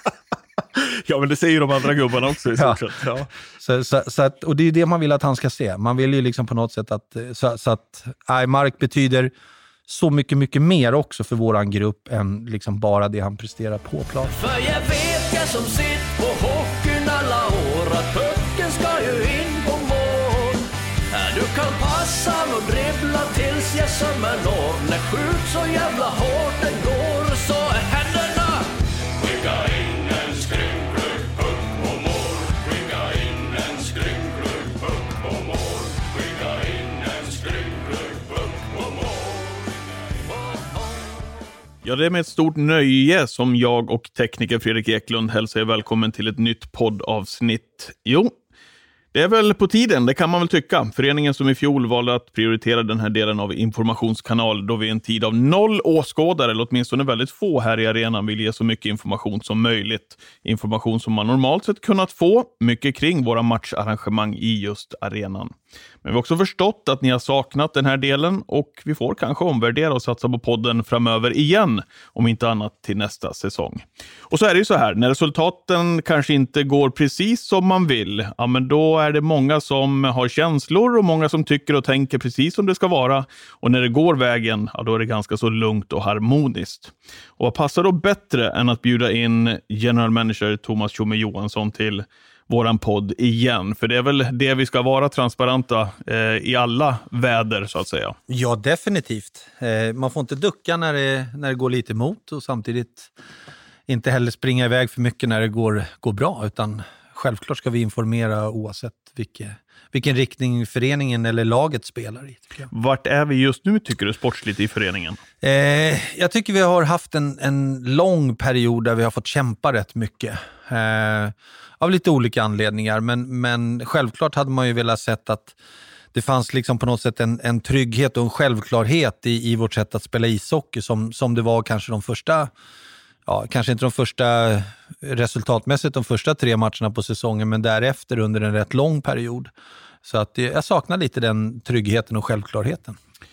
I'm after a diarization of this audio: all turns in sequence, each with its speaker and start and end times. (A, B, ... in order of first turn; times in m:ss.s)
0:00.7-0:03.3 A
0:03.6-0:09.3 B
0:09.9-0:14.3 B
0:14.3-0:38.2 C
0:41.8-0:48.3 A
0:49.1-1:38.2 A
1:38.3-1:43.1 B
1:43.9-1:52.7 B
1:52.7-1:55.2 A
1:55.4-2:05.5 B
2:06.1-2:12.5 B
2:13.2-2:19.5 B
2:20.0-2:23.0 B